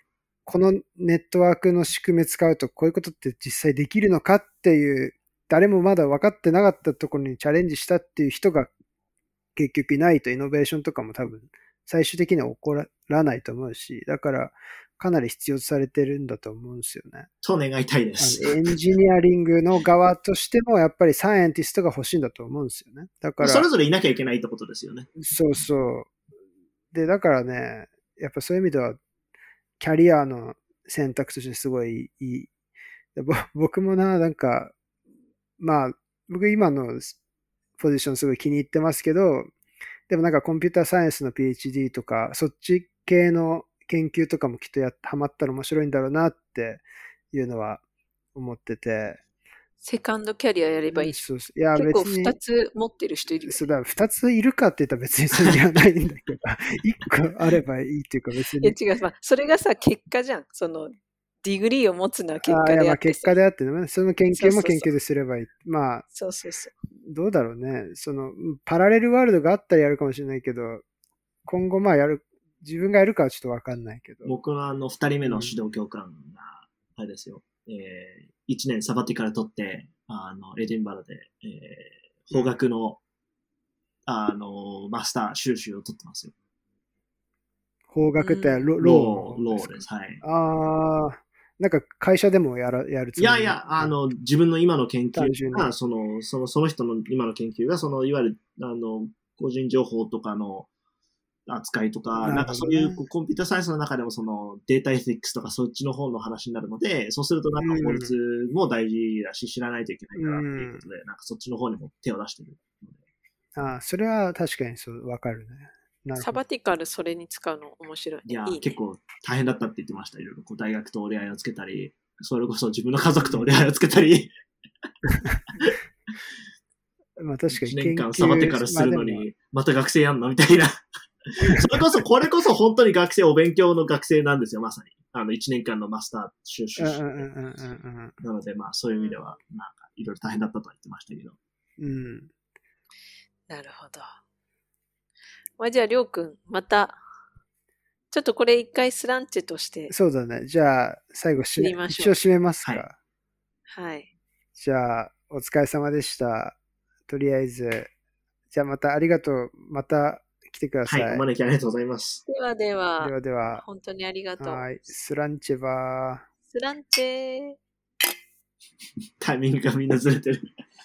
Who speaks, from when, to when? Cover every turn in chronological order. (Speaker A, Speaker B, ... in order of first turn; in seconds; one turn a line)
Speaker A: 0.5-8.7
Speaker A: 9.6-17.3
Speaker B: 17.4-18.7
Speaker A: 18.2-23.7
Speaker B: 23.4-25.1
Speaker A: 25.2-26.1
Speaker A: 26.9-29.0
Speaker A: 29.8-32.5
Speaker A: 33.1-34.8
Speaker A: 35.6-37.2
Speaker A: 37.8-39.5
Speaker A: 40.1-47.8
Speaker A: 48.4-49.2
Speaker C: 49.8-53.6
Speaker A: 50.9-52.4
Speaker A: 53.5-58.8
Speaker C: 58.6-63.4
Speaker A: 62.5-66.1
Speaker C: 64.3-64.9
Speaker C: 66.1-66.7
Speaker A: 67.0-70.8
Speaker A: 71.5-74.3
Speaker B: 74.2-83.0
Speaker A: 75.2-75.5
Speaker B: 84.1-86.3
Speaker A: 87.9-94.0
Speaker C: 88.2-88.7
Speaker B: 88.8-90.2
Speaker B: 93.2-100.7
Speaker A: 95.1-95.7
Speaker B: 101.5-113.0
Speaker A: 102.2-103.0
Speaker A: 107.6-108.1
Speaker A: 110.2-110.8
Speaker A: 113.6-116.4
Speaker C: 116.2-118.8
Speaker B: 118.3-124.3
Speaker A: 123.2-123.5
Speaker A: 127.2-129.2
Speaker B: 127.5-137.3
Speaker A: 136.8-138.2
Speaker B: 138.2-141.4
Speaker C: 138.9-139.3
Speaker A: 141.8-142.3
Speaker C: 143.5-144.2
Speaker C: 145.6-147.0
Speaker C: 148.1-149.9
Speaker A: 149.9-153.0
Speaker C: 151.6-152.2
Speaker C: 153.7-154.1
Speaker A: 154.6-156.6
Speaker A: 157.1-157.9
Speaker A: 158.5-161.2
Speaker B: 160.9-162.2
Speaker C: 162.3-164.7
Speaker A: 163.0-163.6
Speaker A: 164.4-166.2
Speaker C: 166.5-167.6
Speaker B: 169.2-170.4